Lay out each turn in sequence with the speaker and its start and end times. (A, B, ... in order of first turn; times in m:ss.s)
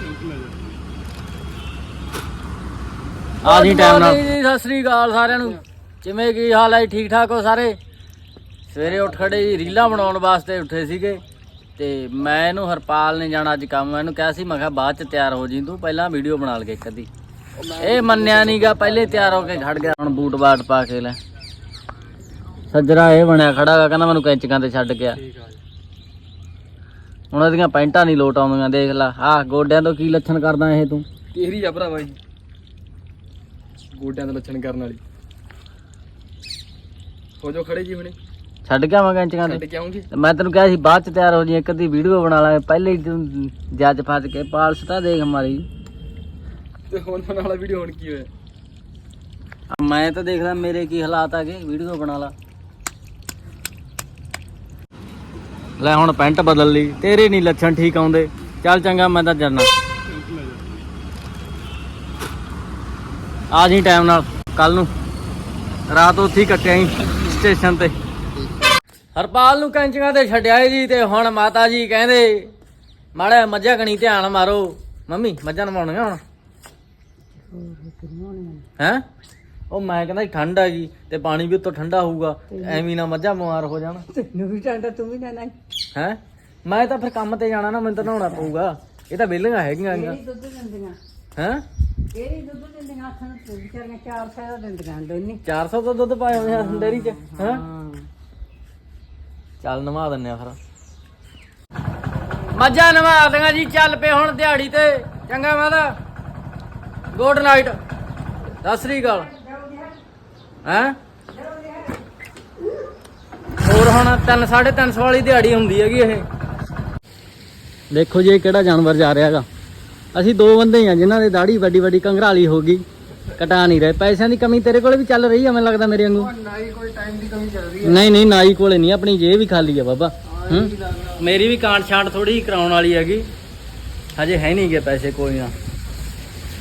0:03.4-0:07.8 A
0:03.6-0:04.0 B
0:08.7-0:11.2 A
0:11.8-0:17.1 A
0:17.6-0:20.2 B
0:17.8-0:21.2 A
0:22.7-0:25.2 A
0:25.2-0:25.6 B
0:27.3-0:31.0 A
0:31.3-0:32.2 B
0:33.9-0:35.0 B
0:37.4-0:38.2 B
0:38.6-0:45.7 A
0:39.4-0:40.1 B
0:46.9-0:48.3 B
0:49.7-0:52.3 A
0:55.8-0:59.7 A
1:03.5-1:04.9 A
1:05.9-1:08.0 A
1:09.2-1:12.5 A
1:13.2-1:16.2 A
1:17.5-1:18.6 C
1:18.8-1:19.0 A
1:19.7-1:24.1 A
1:22.5-1:22.8 C
1:24.1-1:25.6 C
1:26.0-1:30.2 A
1:29.9-1:31.0 C
1:31.4-1:31.6 A
1:32.1-1:35.4 C
1:35.4-1:37.6 A
1:36.4-1:38.1 C
1:39.6-1:40.6 A
1:42.5-1:46.0 A
1:47.1-1:47.8 A
1:48.6-1:49.3 A
1:49.3-1:50.0 C
1:50.6-1:51.0 A
1:51.3-1:52.0 C
1:53.6-1:56.3 A
1:57.9-1:59.5 A
2:00.1-2:06.3 A
2:06.2-2:08.0 B
2:07.8-2:13.3 A
2:10.4-2:11.2 B
2:14.2-2:15.6 A